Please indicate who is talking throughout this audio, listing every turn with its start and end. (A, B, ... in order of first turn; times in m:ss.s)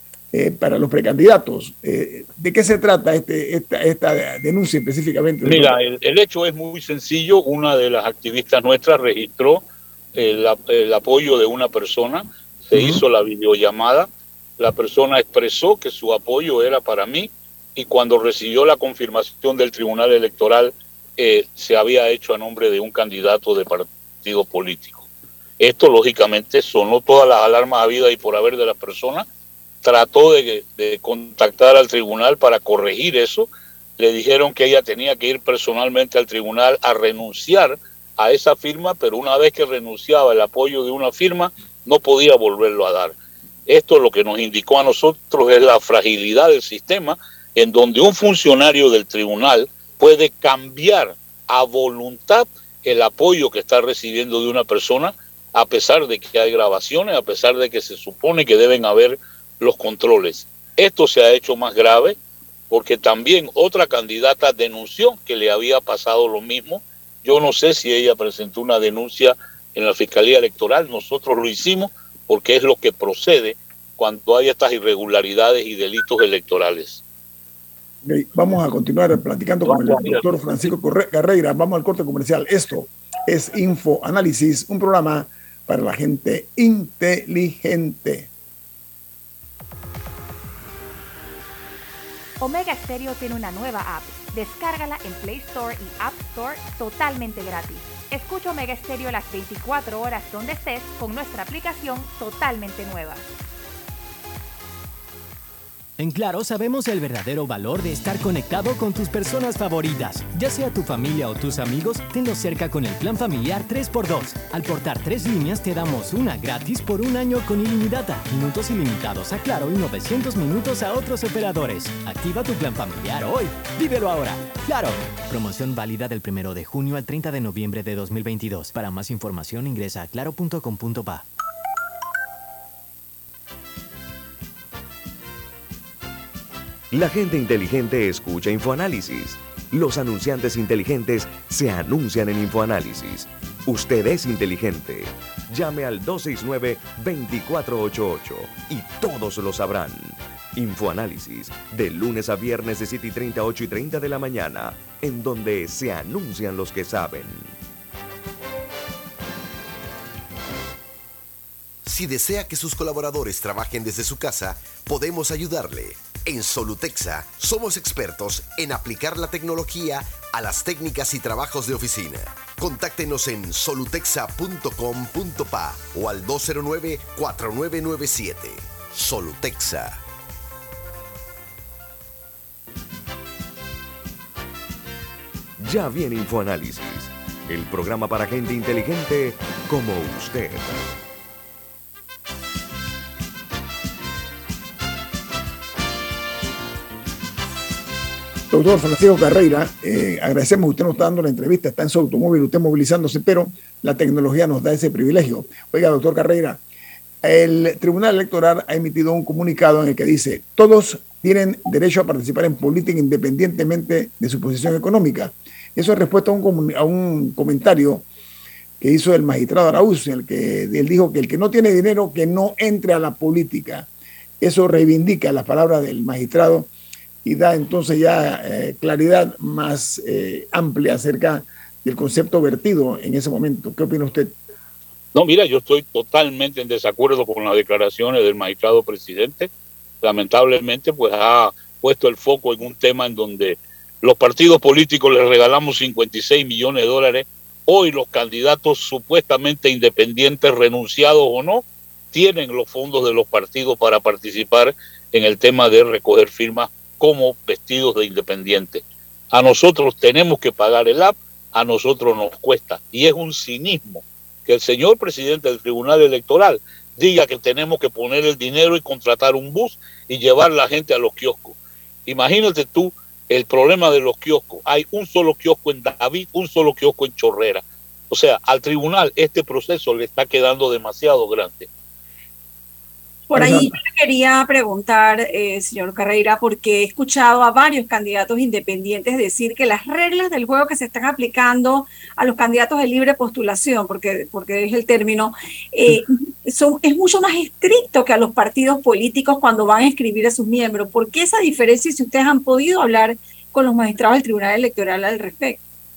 0:00.3-0:05.8 A
0:05.4-0:14.1 B
0:12.7-0:13.0 A
0:14.6-0:25.1 B
0:25.6-0:29.3 B
0:29.8-1:02.2 B
1:02.7-1:17.0 B
1:18.0-1:28.3 A
1:19.6-1:20.2 B
1:32.4-1:43.3 C
1:46.0-2:11.2 D
2:16.9-2:37.6 E
2:41.8-3:00.0 F
3:05.6-3:10.8 E
3:18.5-3:26.6 A
3:27.2-3:38.1 A
3:38.8-3:43.9 A
3:44.4-3:46.7 A
3:47.2-3:54.3 A
3:55.1-3:59.5 B
4:00.0-4:41.7 B
4:43.3-5:05.6 G
4:43.3-4:43.8 A